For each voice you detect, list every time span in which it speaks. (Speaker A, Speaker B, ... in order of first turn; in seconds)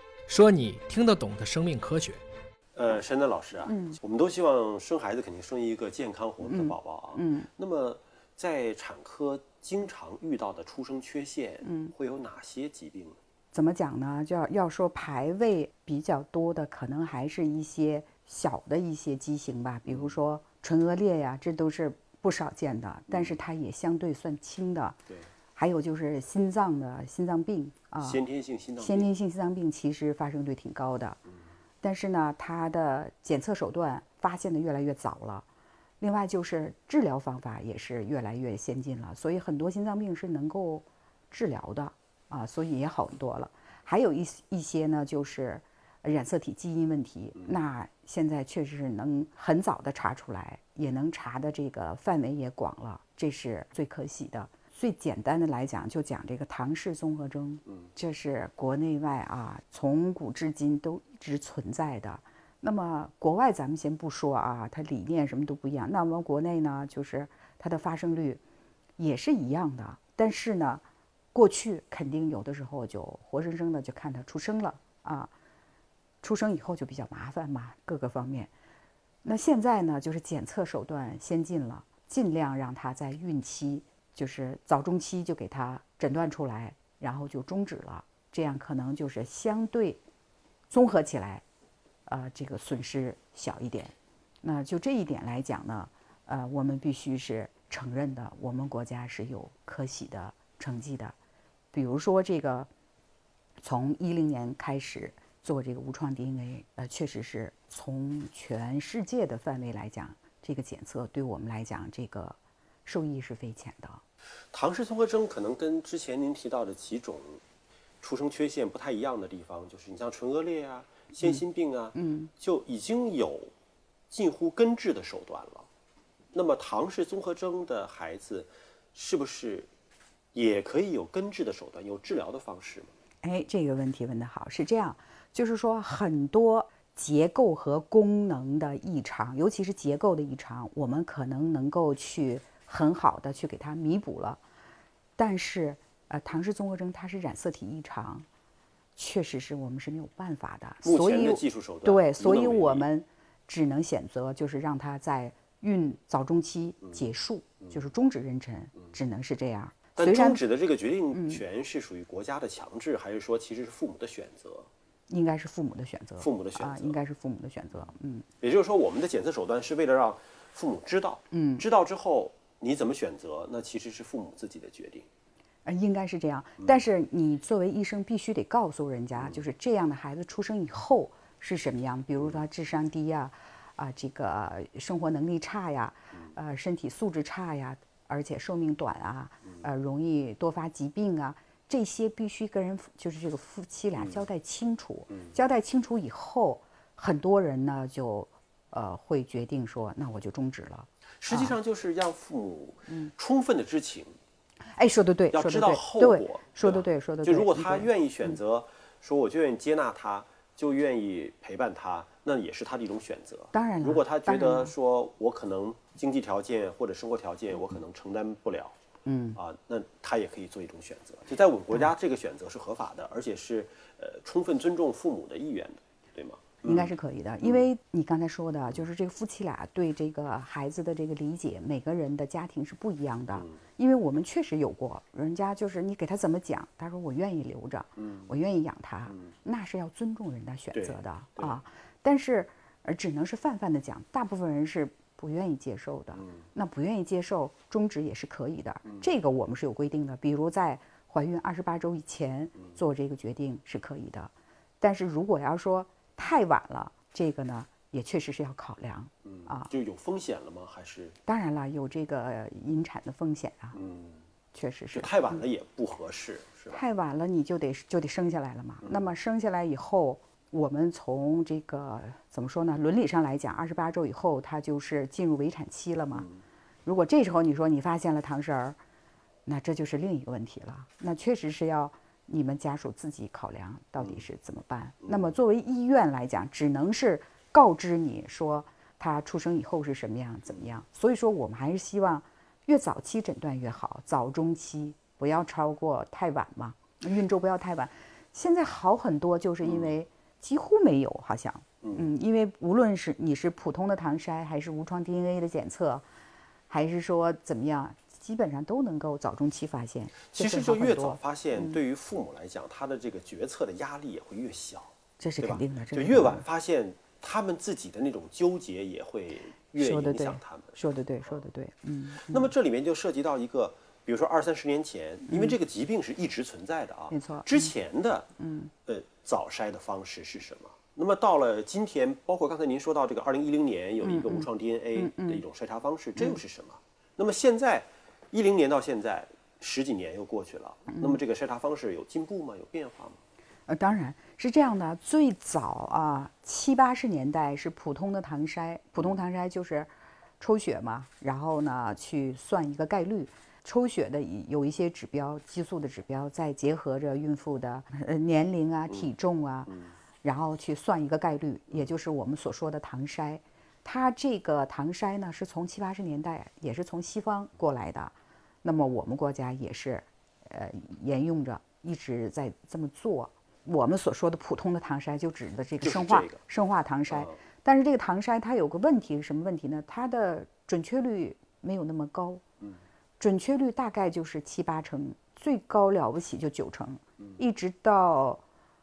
Speaker A: 0.3-2.2
Speaker B: 2.8-13.2, 19.9-20.2, 23.1-23.4, 28.0-29.1, 114.5-117.4, 118.0-123.5, 124.1-125.7, 126.3-129.7, 130.3-132.9, 150.8-152.9, 160.0-164.7, 166.2-167.0, 168.4-175.1, 179.2-179.4, 201.2-204.2, 205.3-218.8, 219.4-227.6, 240.7-241.6, 259.2-261.2, 263.8-264.2, 264.9-266.8, 285.1-285.3, 299.6-299.9, 310.3-320.8, 322.2-328.3, 328.9-343.2, 375.8-376.4, 377.1-377.4
Speaker C: 3.7-4.0, 6.5-7.5, 11.6-11.9, 13.5-25.0, 25.6-28.2, 28.8-31.2, 31.8-35.5, 36.0-68.4, 69.0-75.3, 76.2-78.5, 79.2-90.0, 90.7-91.4, 92.1-101.2, 101.7-102.7, 103.6-114.0, 122.0-122.3, 133.2-144.4, 145.2-148.3, 148.9-160.4, 161.1-161.4, 165.1-168.3, 171.3-171.7, 175.7-201.6, 204.7-208.4, 213.5-214.7, 219.1-219.4, 226.6-259.7, 261.3-263.8, 264.5-265.4, 266.7-276.3, 276.9-278.8, 279.5-306.1, 306.7-311.8, 315.2-316.4, 319.8-322.5, 325.3-325.6, 327.1-327.7, 328.4-328.7, 334.0-335.4, 340.9-341.2, 343.7-382.4, 383.2-388.4